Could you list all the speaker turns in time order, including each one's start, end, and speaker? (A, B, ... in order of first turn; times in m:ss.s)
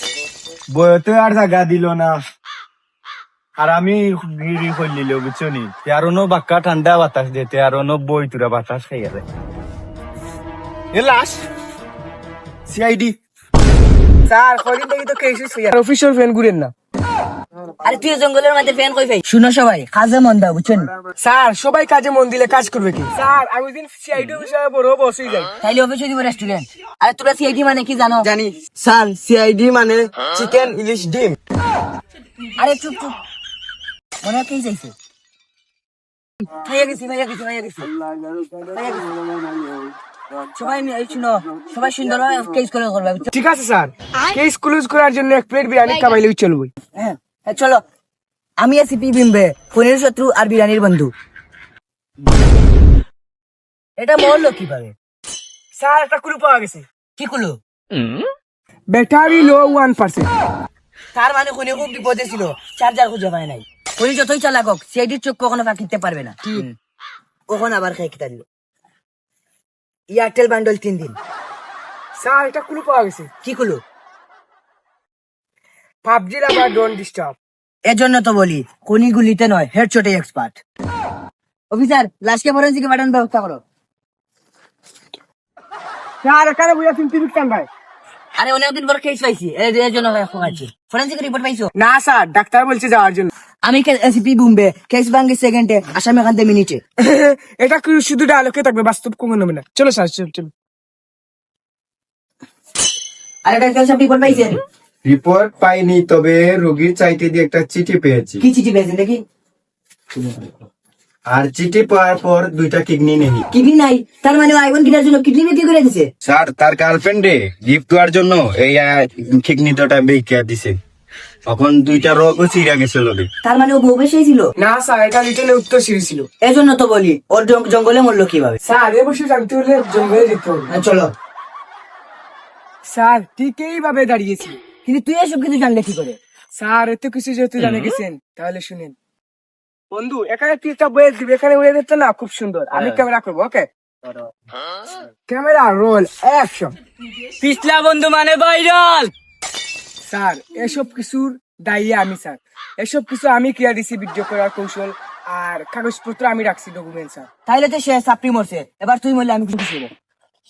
0:00.7-0:02.2 A
0:03.6-0:09.2 A
0:10.9-0:11.4 A
0:12.7-0:13.2 A
0:14.3-0:16.7 B
0:17.8-0:20.9 C
0:21.2-0:25.5 B
0:25.6-0:29.9 C
0:30.3-0:31.3 A
0:32.6-0:33.2 C
0:34.2-0:35.0 C
0:36.5-0:37.9 C
0:38.6-0:39.1 C
0:40.5-0:43.3 C
0:43.3-0:46.7 B
0:47.0-0:47.8 C
0:48.6-0:51.1 C
0:54.0-0:55.0 C
0:55.8-0:56.9 B
0:57.2-0:57.6 C
0:58.9-1:00.3 B
1:01.1-1:06.7 C
1:07.5-1:08.5 C
1:10.1-1:11.2 C
1:12.2-1:13.3 B
1:13.4-1:13.8 C
1:16.0-1:17.4 B
1:17.8-1:20.6 C
1:21.7-1:23.6 C
1:26.2-1:27.7 B
1:28.4-1:31.7 C
1:31.8-1:33.3 B
1:33.6-1:36.8 C
1:37.0-1:40.5 B
1:43.4-1:44.6 C
1:45.0-1:48.4 A
1:48.4-1:49.2 C
1:51.3-1:53.5 A
1:53.5-1:56.1 C
1:56.2-2:00.8 A
2:01.5-2:03.3 A
2:03.4-2:04.5 C
2:04.6-2:06.3 B
2:06.4-2:08.6 C
2:08.6-2:10.7 B
2:10.7-2:11.1 C
2:12.9-2:14.6 B
2:14.8-2:16.2 C
2:16.6-2:19.0 B
2:19.9-2:23.7 B
2:25.3-2:26.8 B
2:27.4-2:29.1 C
2:30.0-2:37.3 B
2:37.5-2:39.9 C